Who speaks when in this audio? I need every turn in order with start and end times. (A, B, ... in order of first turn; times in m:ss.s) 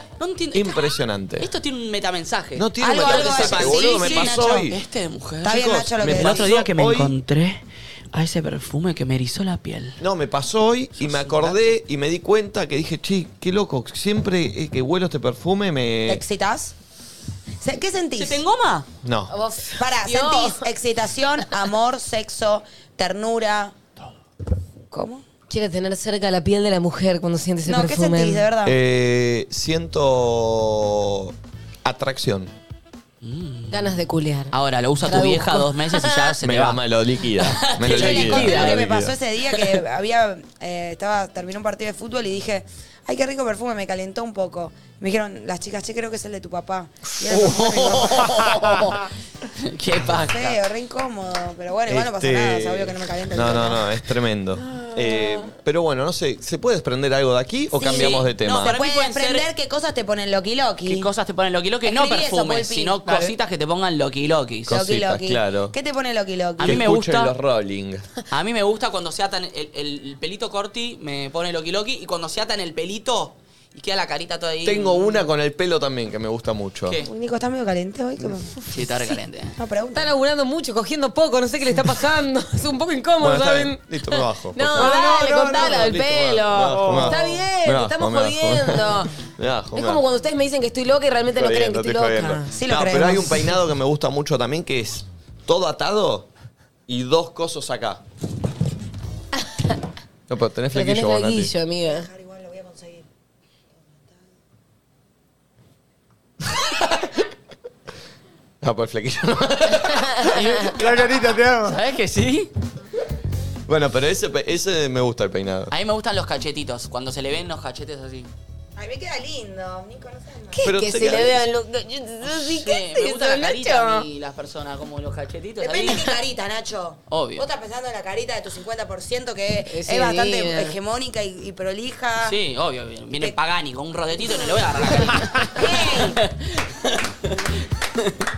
0:00.2-0:10.0 A
0:00.5-0:01.5 B
0:02.6-0:04.8 B
0:02.8-0:04.7 C
0:05.4-0:06.5 C
0:05.5-0:07.1 B
0:10.0-0:16.2 B
0:11.0-0:11.7 A
0:16.1-0:16.7 C
0:17.6-0:18.4 C
0:18.2-0:18.9 A
0:19.0-0:19.3 B
0:19.3-0:20.7 D
0:19.8-0:23.8 C
0:24.9-0:25.2 C
0:25.5-0:28.5 D
0:27.6-0:28.8 C
0:28.6-0:32.5 B
0:33.2-0:34.0 A
0:33.7-0:36.3 D
0:34.5-0:36.8 A
0:36.4-0:39.2 B
0:37.7-0:38.3 D
0:37.8-0:38.8 A
0:37.8-0:48.6 C
0:47.3-0:49.0 A
0:49.5-0:50.6 A
0:50.2-0:53.9 C
0:51.9-0:58.7 B
0:54.8-0:55.5 D
0:57.7-1:01.1 C
0:58.0-0:59.5 A
1:00.9-1:04.7 A
1:01.8-1:03.0 C
1:04.7-1:05.7 B
1:04.7-1:06.8 C
1:06.6-1:07.3 A
1:06.6-1:08.1 B
1:08.3-1:15.2 A
1:14.6-1:17.0 B
1:17.0-1:18.6 C
1:18.7-1:19.6 A
1:19.6-1:20.1 C
1:19.9-1:29.1 D
1:23.2-1:30.0 B
1:24.8-1:26.0 E
1:26.7-1:27.4 E
1:29.8-1:32.5 D
1:31.3-1:36.3 B
1:32.5-1:33.6 C
1:36.9-1:38.0 B
1:39.4-1:39.7 D
1:40.3-1:41.5 B
1:40.7-1:42.1 D
1:41.9-1:43.1 C
1:43.8-1:44.2 C
1:46.8-1:47.1 B
1:48.6-1:50.3 B
1:50.0-1:50.7 D
1:50.3-1:50.9 A
1:50.8-1:51.8 E
1:51.6-1:52.5 A
1:53.7-1:55.7 B
1:55.7-1:58.3 A
1:58.8-2:00.7 C
2:00.5-2:04.1 D
2:00.6-2:01.4 B
2:02.2-2:06.1 A
2:05.6-2:12.4 C
2:05.8-2:06.1 D
2:07.1-2:07.5 A
2:09.7-2:10.8 D
2:12.2-2:18.2 A
2:15.0-2:16.2 C